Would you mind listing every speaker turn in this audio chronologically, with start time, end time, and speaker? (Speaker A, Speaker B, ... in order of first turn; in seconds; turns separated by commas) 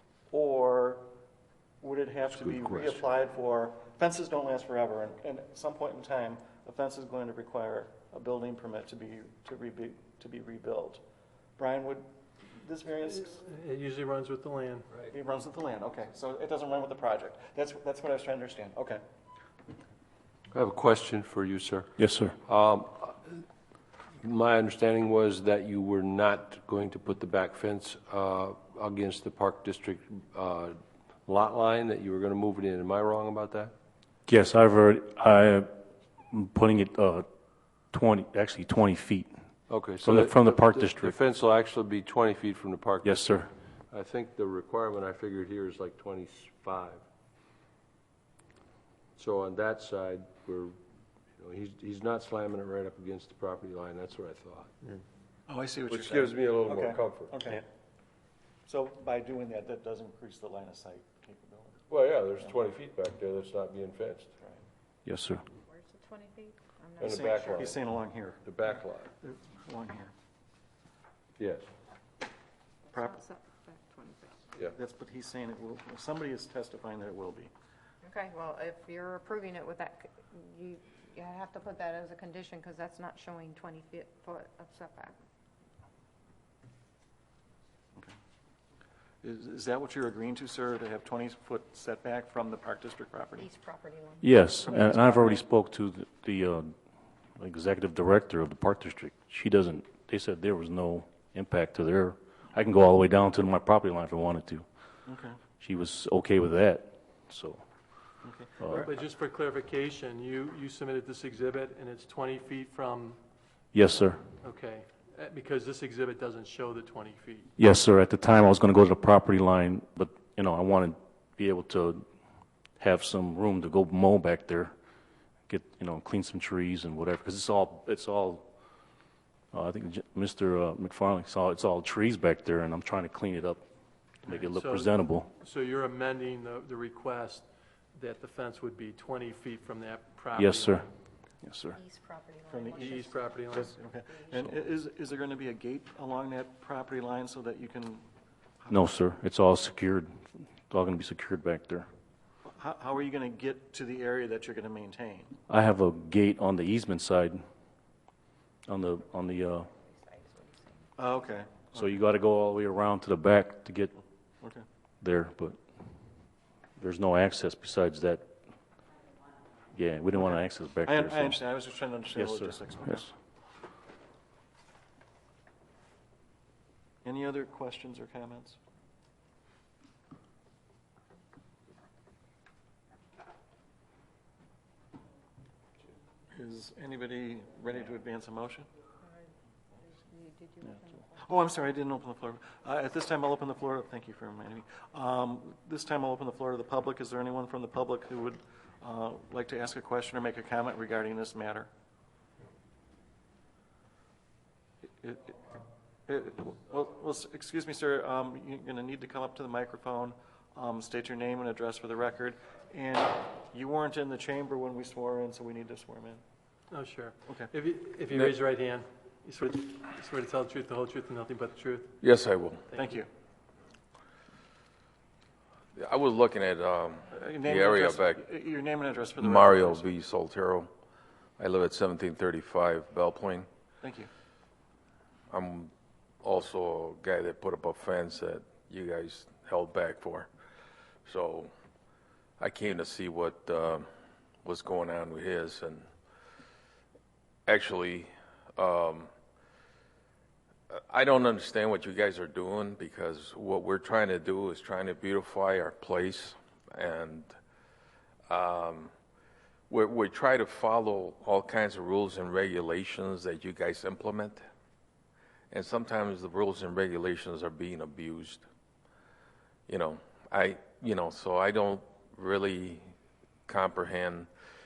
Speaker A: 0.3-1.1, Speaker A: 1.8-11.0, Speaker B: 2.3-3.0, Speaker A: 11.6-13.4, Speaker C: 13.2-14.9, Speaker A: 15.1-19.0, Speaker B: 20.5-21.9, Speaker D: 22.0-22.4, Speaker B: 22.4-23.4, Speaker B: 24.2-33.7, Speaker D: 34.3-35.7, Speaker D: 36.3-37.3, Speaker D: 37.9-39.3, Speaker B: 39.7-43.3, Speaker D: 40.0-41.2, Speaker D: 43.0-43.5, Speaker B: 43.9-47.0, Speaker B: 49.2-50.8, Speaker B: 51.4-54.7, Speaker A: 55.5-57.6, Speaker B: 55.9-57.5, Speaker A: 58.7-61.8, Speaker B: 61.9-64.3, Speaker D: 65.0-65.4, Speaker E: 65.6-67.7, Speaker B: 67.0-67.8, Speaker A: 67.0-68.4, Speaker B: 68.4-69.1, Speaker A: 69.2-70.1, Speaker B: 71.4-71.7, Speaker A: 72.9-73.2, Speaker E: 72.9-74.5, Speaker A: 74.7-77.5, Speaker E: 78.0-85.2, Speaker A: 89.2-93.5, Speaker E: 93.4-94.7, Speaker D: 94.2-96.7, Speaker A: 94.6-95.4, Speaker D: 97.4-104.6, Speaker A: 105.0-105.4, Speaker D: 105.6-107.6, Speaker A: 108.2-108.9, Speaker C: 108.7-113.2, Speaker D: 113.7-114.2, Speaker C: 114.4-117.5, Speaker D: 117.6-122.0, Speaker D: 122.8-124.7, Speaker D: 125.5-128.5, Speaker D: 129.5-133.6, Speaker D: 134.2-135.3, Speaker C: 134.3-140.8, Speaker D: 140.3-140.9, Speaker D: 141.4-141.8, Speaker E: 141.7-144.6, Speaker A: 142.5-148.0, Speaker C: 142.8-143.7, Speaker D: 148.7-150.1, Speaker D: 150.7-151.9, Speaker A: 152.5-155.3, Speaker D: 155.5-157.4, Speaker D: 158.7-159.7, Speaker E: 159.6-160.9, Speaker A: 161.0-161.9, Speaker D: 161.7-163.9, Speaker D: 165.0-165.6, Speaker D: 166.8-168.2, Speaker D: 169.7-171.4, Speaker A: 170.2-173.1, Speaker D: 172.2-173.1, Speaker A: 177.0-178.6, Speaker A: 186.3-188.7, Speaker E: 189.0-191.2, Speaker A: 191.2-201.7, Speaker A: 205.0-205.4, Speaker A: 206.1-216.2, Speaker C: 216.7-221.9, Speaker F: 222.0-222.7, Speaker A: 222.8-223.1, Speaker F: 225.8-228.2, Speaker A: 227.1-229.8, Speaker F: 229.2-230.7, Speaker F: 231.4-233.5, Speaker A: 233.8-234.1, Speaker F: 235.3-235.7, Speaker F: 236.2-240.3, Speaker F: 241.1-241.5, Speaker F: 242.4-243.8, Speaker F: 244.4-245.9, Speaker F: 247.5-249.1, Speaker F: 250.7-257.3, Speaker F: 258.3-258.9, Speaker F: 259.7-264.4, Speaker F: 265.5-268.4, Speaker F: 269.7-272.8, Speaker F: 273.5-274.3